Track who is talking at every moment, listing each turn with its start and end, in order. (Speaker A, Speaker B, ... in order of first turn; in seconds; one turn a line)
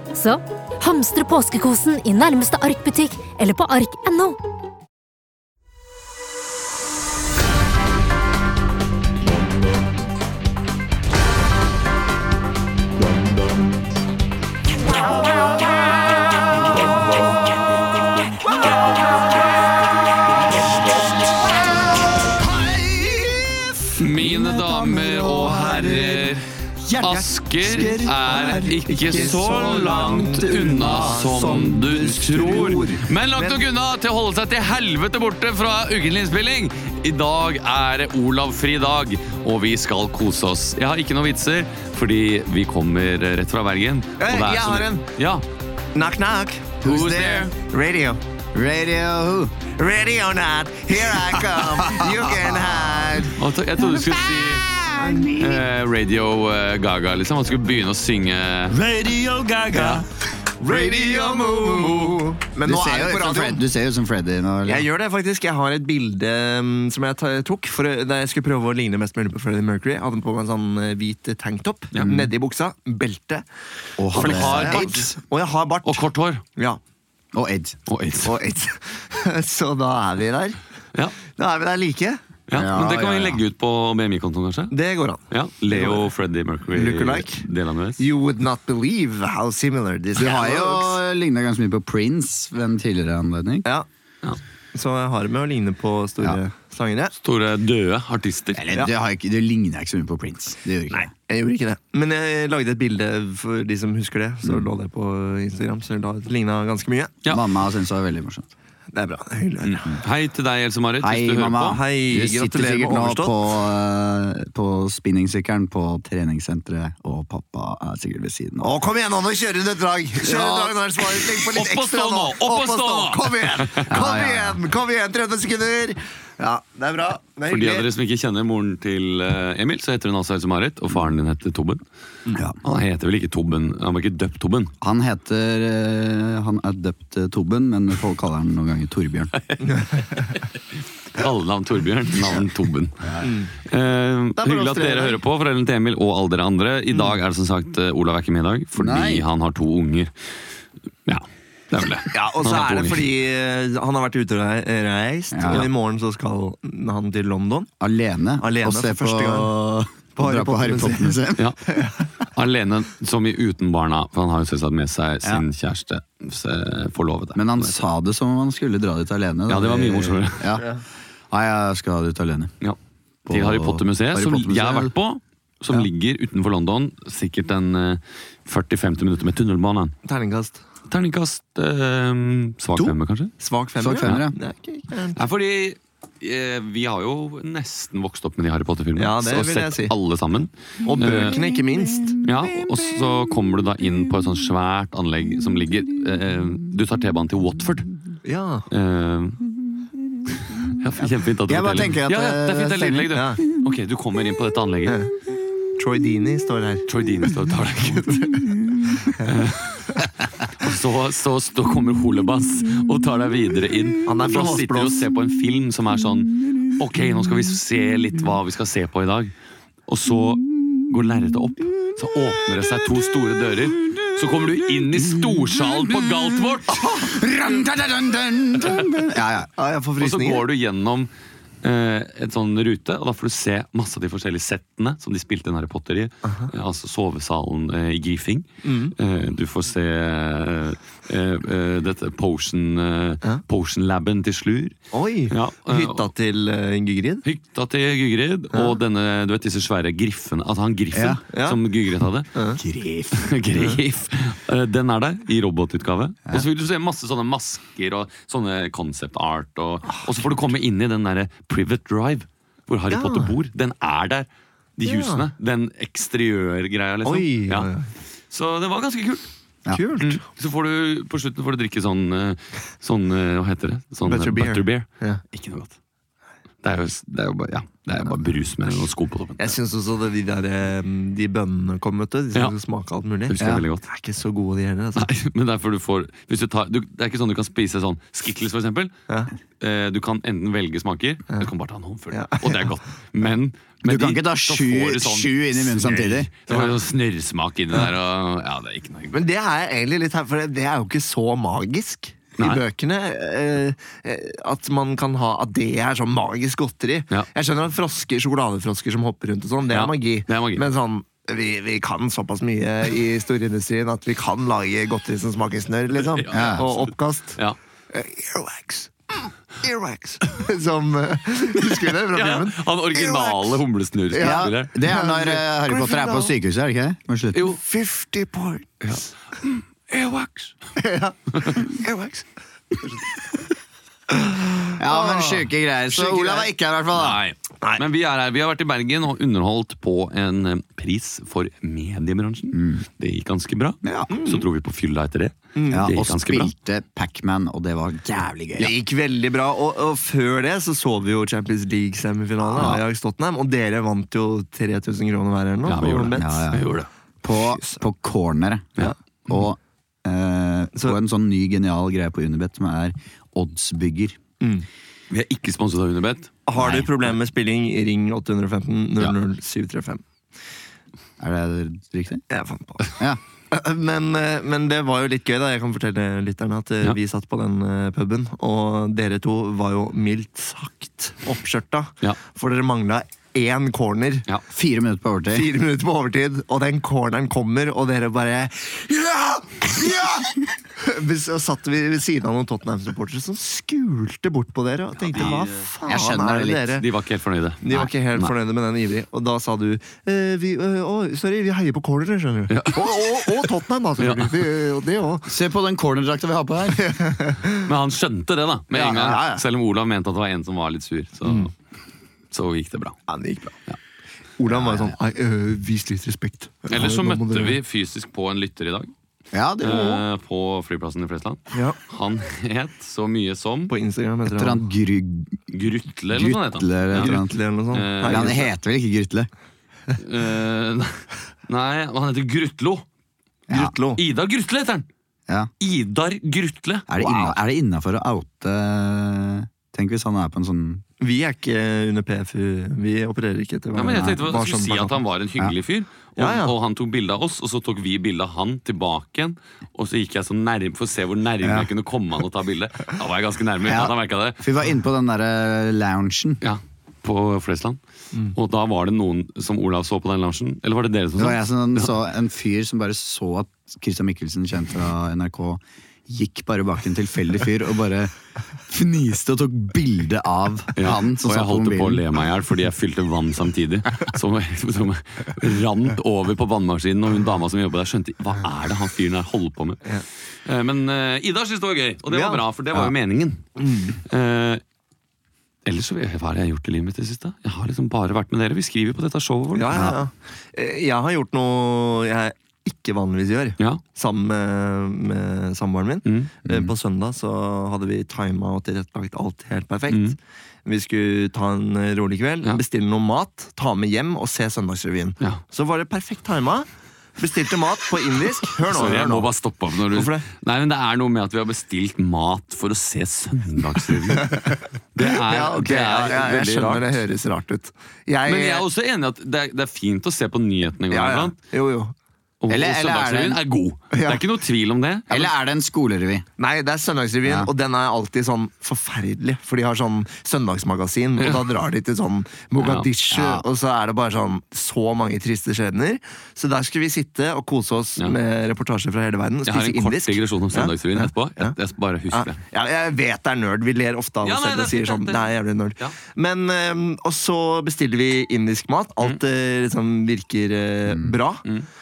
Speaker A: 0.1-4.4
Speaker B: 21.5-33.0
Speaker C: 24.0-26.5
Speaker C: 27.0-45.5
Speaker D: 28.4-33.6
Speaker D: 44.2-45.1
Speaker D: 46.0-48.2
Speaker C: 46.8-47.5
Speaker B: 48.5-49.5
Speaker D: 49.7-53.4
Speaker B: 51.3-53.2
Speaker C: 53.3-54.7
Speaker B: 53.8-55.6
Speaker D: 55.0-55.5
Speaker C: 55.3-58.8
Speaker D: 58.7-60.0
Speaker C: 59.7-60.0
Speaker D: 60.6-63.6
Speaker B: 60.7-61.9
Speaker B: 62.6-64.8
Speaker D: 64.7-73.5
Speaker C: 71.9-72.3
Speaker B: 74.0-75.1
Speaker D: 74.1-76.1
Speaker C: 74.1-75.1
Speaker C: 75.8-76.4
Speaker B: 77.3-77.8
Speaker C: 77.9-78.4
Speaker D: 78.2-80.6
Speaker D: 81.3-82.2
Speaker C: 82.5-84.8
Speaker B: 82.5-83.4
Speaker D: 84.7-86.1
Speaker C: 85.3-88.1
Speaker D: 86.7-87.5
Speaker D: 88.0-91.0
Speaker B: 90.2-93.7
Speaker D: 94.7-97.2
Speaker C: 97.2-98.7
Speaker B: 98.6-101.1
Speaker D: 100.9-107.2
Speaker B: 107.3-108.5
Speaker D: 108.9-109.8
Speaker C: 109.6-111.8
Speaker B: 111.0-118.7
Speaker D: 111.7-113.3
Speaker D: 118.6-127.9
Speaker B: 120.2-120.8
Speaker C: 121.4-123.9
Speaker B: 123.9-124.6
Speaker C: 127.5-131.8
Speaker C: 132.6-134.7
Speaker B: 134.8-139.3
Speaker C: 139.3-140.6
Speaker C: 141.1-150.1
Speaker B: 143.0-143.3
Speaker D: 143.2-143.5
Speaker D: 144.4-145.2
Speaker D: 146.9-147.2
Speaker B: 148.8-149.2
Speaker C: 151.1-153.1
Speaker D: 152.1-157.7
Speaker B: 155.3-155.7
Speaker B: 157.8-161.5
Speaker D: 158.4-159.5
Speaker D: 160.2-162.0
Speaker C: 162.3-167.8
Speaker B: 167.3-170.7
Speaker C: 169.5-170.6
Speaker B: 171.3-172.5
Speaker C: 172.6-179.9
Speaker B: 173.3-174.9
Speaker D: 180.1-180.6
Speaker C: 180.9-183.3
Speaker D: 182.8-185.2
Speaker B: 183.8-184.3
Speaker C: 185.2-191.4
Speaker D: 189.0-189.9
Speaker D: 190.8-192.2
Speaker B: 191.3-192.7
Speaker C: 192.2-197.9
Speaker D: 198.2-198.7
Speaker C: 198.7-199.4
Speaker C: 200.7-205.0
Speaker B: 201.0-203.1
Speaker D: 203.1-203.4
Speaker D: 204.9-205.2
Speaker D: 205.8-207.0
Speaker C: 206.9-208.3
Speaker D: 208.0-208.4
Speaker C: 209.2-209.8
Speaker C: 210.6-219.3
Speaker D: 214.1-215.1
Speaker C: 219.9-226.9
Speaker B: 223.9-229.5
Speaker D: 229.6-230.5
Speaker C: 230.0-231.1
Speaker C: 231.6-244.8
Speaker D: 236.2-236.5
Speaker D: 238.6-238.9
Speaker D: 244.9-247.2
Speaker C: 245.3-246.1
Speaker C: 247.2-252.3
Speaker B: 250.9-251.2
Speaker D: 251.3-251.6
Speaker D: 252.3-252.6
Speaker B: 252.6-253.2
Speaker C: 253.1-267.7
Speaker D: 262.9-263.3
Speaker D: 264.8-265.3
Speaker D: 267.0-267.9
Speaker C: 268.3-269.3
Speaker D: 269.7-270.2
Speaker C: 270.0-275.8
Speaker D: 274.1-275.2
Speaker C: 276.6-279.6
Speaker D: 279.4-285.1
Speaker C: 283.3-283.9
Speaker C: 285.0-288.9
Speaker C: 289.6-299.2
Speaker D: 292.1-292.7
Speaker B: 293.9-296.3
Speaker D: 296.5-296.8
Speaker D: 299.1-323.6
Speaker C: 309.7-310.7
Speaker C: 316.0-317.6
Speaker B: 316.3-316.6
Speaker C: 322.1-324.7
Speaker D: 324.1-326.4
Speaker B: 324.2-327.4
Speaker C: 327.3-327.6
Speaker D: 327.4-329.1
Speaker C: 328.9-330.5
Speaker D: 330.8-332.3
Speaker D: 334.1-336.5
Speaker B: 334.8-337.2
Speaker C: 336.9-346.5
Speaker B: 342.5-342.8
Speaker B: 343.8-344.1
Speaker D: 344.1-344.5
Speaker D: 345.6-345.9
Speaker B: 345.7-348.7
Speaker D: 348.6-356.6
Speaker C: 352.6-352.8
Speaker C: 355.7-356.9
Speaker B: 356.2-356.7
Speaker B: 357.2-364.2
Speaker D: 357.4-357.8
Speaker D: 364.4-364.7
Speaker C: 365.1-367.1
Speaker D: 366.5-370.0
Speaker B: 371.2-372.2
Speaker D: 372.3-384.3
Speaker B: 384.5-385.5
Speaker D: 385.3-396.9
Speaker C: 395.0-395.7
Speaker B: 395.9-396.7
Speaker C: 396.7-398.3
Speaker D: 397.6-405.3
Speaker C: 402.5-404.4
Speaker B: 405.3-407.0
Speaker D: 406.8-407.7
Speaker C: 407.6-411.5
Speaker B: 408.7-409.4
Speaker D: 411.2-411.5
Speaker C: 412.3-413.0
Speaker D: 413.1-413.6
Speaker D: 414.4-417.6
Speaker B: 414.5-414.9
Speaker C: 416.7-418.9
Speaker B: 419.3-420.1
Speaker C: 419.6-423.7
Speaker D: 421.5-421.8
Speaker D: 423.7-424.6
Speaker B: 424.3-425.4
Speaker C: 425.5-427.2
Speaker B: 426.1-427.4
Speaker D: 426.9-428.5
Speaker C: 427.7-428.5
Speaker B: 428.1-429.3
Speaker C: 430.0-432.9
Speaker D: 433.5-434.0
Speaker C: 434.0-434.9
Speaker C: 435.6-437.4
Speaker B: 436.9-440.8
Speaker D: 441.0-445.0
Speaker C: 443.7-454.4
Speaker B: 443.9-444.2
Speaker D: 446.2-446.6
Speaker B: 451.4-451.7
Speaker B: 453.7-456.4
Speaker C: 456.4-457.8
Speaker C: 458.3-461.9
Speaker B: 461.2-468.1
Speaker B: 468.7-472.1
Speaker C: 470.8-479.8
Speaker C: 480.4-483.4
Speaker D: 482.1-482.4
Speaker D: 483.6-484.0
Speaker C: 484.0-484.6
Speaker C: 485.6-490.0
Speaker D: 489.6-509.3
Speaker C: 496.1-496.3
Speaker B: 496.5-496.7
Speaker C: 499.9-500.2
Speaker C: 508.7-514.4
Speaker D: 509.9-510.3
Speaker D: 514.1-518.6
Speaker C: 515.0-517.0
Speaker C: 518.2-521.3
Speaker D: 520.9-521.9
Speaker C: 522.4-525.3
Speaker B: 522.5-523.4
Speaker D: 523.9-524.2
Speaker B: 525.1-526.2
Speaker D: 526.4-541.6
Speaker B: 527.2-527.5
Speaker C: 531.2-531.5
Speaker C: 532.6-532.9
Speaker B: 533.1-533.5
Speaker C: 539.5-542.4
Speaker D: 542.1-551.5
Speaker C: 544.2-546.0
Speaker B: 550.9-551.1